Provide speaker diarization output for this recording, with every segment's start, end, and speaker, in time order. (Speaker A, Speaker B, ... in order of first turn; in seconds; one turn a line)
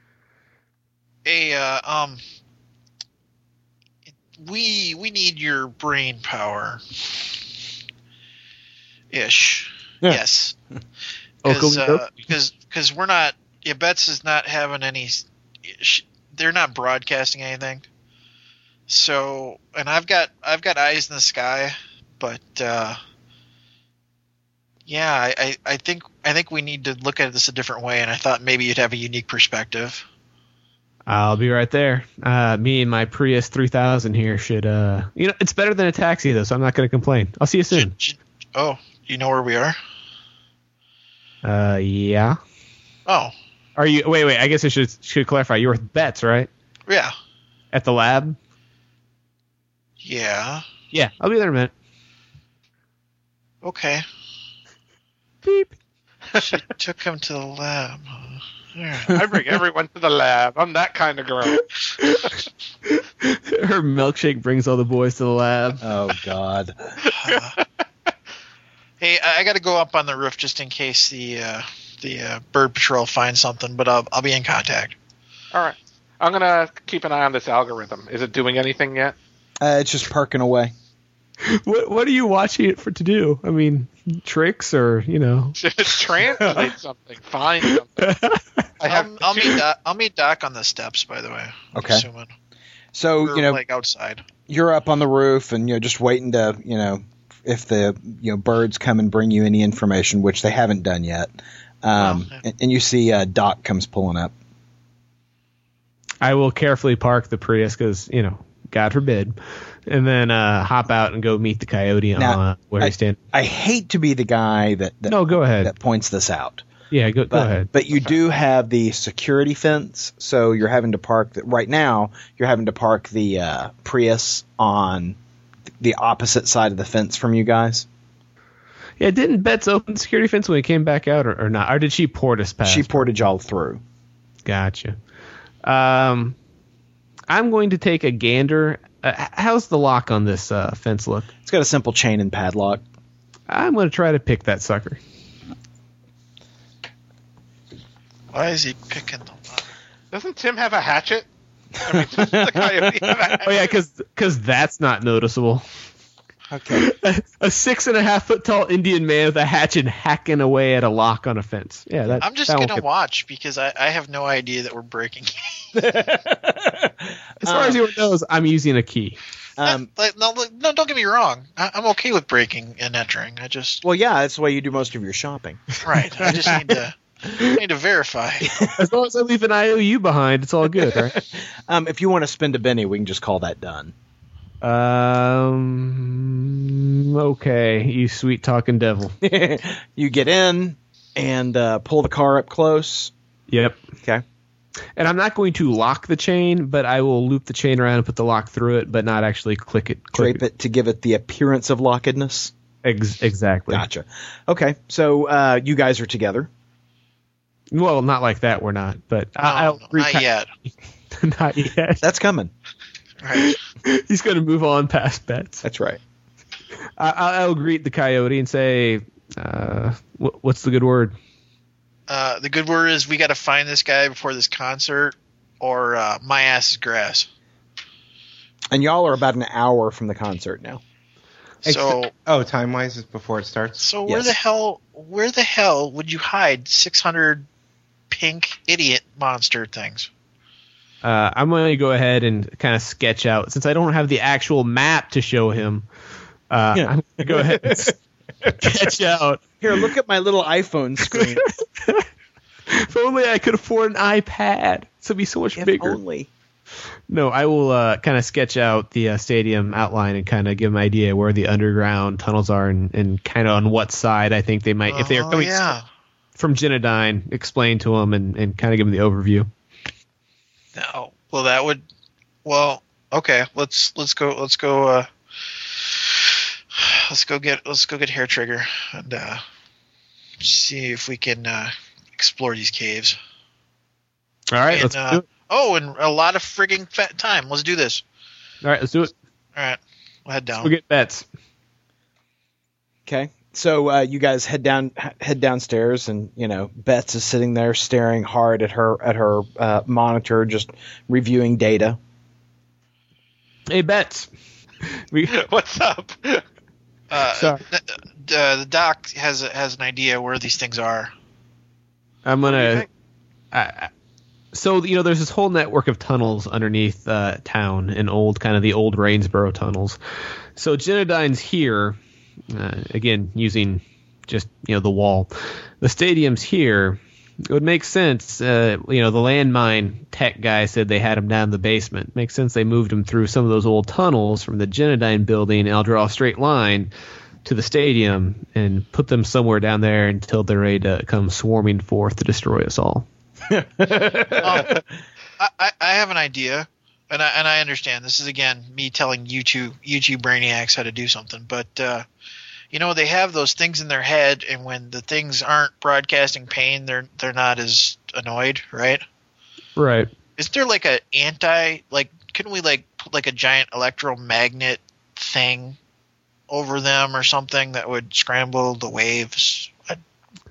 Speaker A: 1.2-2.2
Speaker A: 4.4-7.3
Speaker A: 9.1-10.6
Speaker B: 11.4-12.2
Speaker A: 11.4-17.8
Speaker A: 18.9-23.0
Speaker A: 24.9-30.0
Speaker B: 31.1-37.9
Speaker A: 37.7-39.8
Speaker B: 41.4-42.4
Speaker A: 43.1-43.3
Speaker B: 43.8-46.5
Speaker A: 46.9-47.1
Speaker B: 47.7-48.4
Speaker A: 50.0-50.6
Speaker B: 50.9-51.7
Speaker A: 53.6-54.0
Speaker B: 55.4-55.7
Speaker A: 56.3-59.2
Speaker C: 59.1-61.6
Speaker B: 61.6-65.8
Speaker D: 65.8-67.0
Speaker A: 67.1-67.6
Speaker A: 69.0-74.9
Speaker C: 75.5-79.2
Speaker D: 79.6-80.7
Speaker B: 81.4-85.6
Speaker C: 85.6-88.2
Speaker B: 88.0-88.6
Speaker C: 88.8-89.6
Speaker A: 88.8-92.3
Speaker D: 91.7-92.0
Speaker D: 92.9-93.6
Speaker A: 93.2-94.2
Speaker D: 94.5-104.3
Speaker A: 102.0-102.4
Speaker B: 106.2-109.3
Speaker B: 109.9-113.2
Speaker D: 112.2-116.6
Speaker B: 115.1-115.7
Speaker B: 116.9-117.7
Speaker D: 117.3-125.2
Speaker D: 125.8-127.8
Speaker B: 129.0-133.1
Speaker D: 132.6-133.8
Speaker B: 134.4-134.9
Speaker B: 135.6-136.3
Speaker B: 137.3-141.3
Speaker D: 141.4-142.8
Speaker B: 143.5-145.0
Speaker A: 148.3-149.7
Speaker C: 150.1-151.3
Speaker C: 151.8-153.7
Speaker D: 151.9-153.1
Speaker B: 153.4-155.6
Speaker D: 156.5-156.8
Speaker B: 156.7-162.8
Speaker A: 162.2-165.7
Speaker D: 165.7-167.8
Speaker B: 167.4-169.2
Speaker D: 169.6-169.9
Speaker A: 169.6-173.8
Speaker D: 173.8-175.6
Speaker A: 175.8-178.5
Speaker D: 178.4-178.8
Speaker B: 178.7-181.2
Speaker D: 180.8-183.9
Speaker B: 184.6-189.1
Speaker D: 189.2-193.1
Speaker B: 193.5-193.8
Speaker B: 195.0-200.4
Speaker D: 200.1-202.5
Speaker B: 202.8-203.8
Speaker D: 203.7-206.5
Speaker B: 207.7-210.2
Speaker A: 209.4-210.5
Speaker B: 211.2-212.0
Speaker D: 212.0-212.5
Speaker A: 213.2-213.6
Speaker B: 213.3-215.6
Speaker D: 215.6-216.0
Speaker B: 217.0-221.1
Speaker A: 222.1-227.3
Speaker D: 228.7-230.8
Speaker E: 231.6-233.8
Speaker A: 231.6-232.1
Speaker A: 233.8-237.4
Speaker D: 234.1-234.3
Speaker A: 238.1-240.1
Speaker B: 241.0-245.8
Speaker B: 246.5-247.9
Speaker D: 246.7-247.9
Speaker B: 248.5-249.4
Speaker D: 249.6-251.4
Speaker B: 251.1-252.0
Speaker B: 252.7-256.0
Speaker D: 255.6-256.3
Speaker B: 257.1-265.7
Speaker A: 264.9-265.8
Speaker B: 266.4-269.5
Speaker A: 270.7-271.8
Speaker A: 272.4-275.1
Speaker A: 275.7-279.4
Speaker A: 280.4-283.2
Speaker B: 284.5-285.2
Speaker A: 284.7-288.0
Speaker B: 288.6-289.1
Speaker A: 289.6-290.7
Speaker B: 290.6-291.2
Speaker D: 293.1-302.0
Speaker B: 303.7-304.3
Speaker B: 304.8-305.3
Speaker C: 305.3-306.4
Speaker A: 307.1-311.1
Speaker B: 307.3-307.6
Speaker B: 312.2-312.9
Speaker C: 312.4-312.9
Speaker B: 313.5-313.9
Speaker B: 314.5-320.0
Speaker B: 320.6-322.0
Speaker B: 322.5-336.9
Speaker B: 337.4-343.0
Speaker D: 343.5-344.8
Speaker A: 344.4-344.7
Speaker A: 345.4-352.0
Speaker A: 352.7-359.0
Speaker B: 359.8-360.1
Speaker A: 360.4-365.8
Speaker A: 366.5-370.0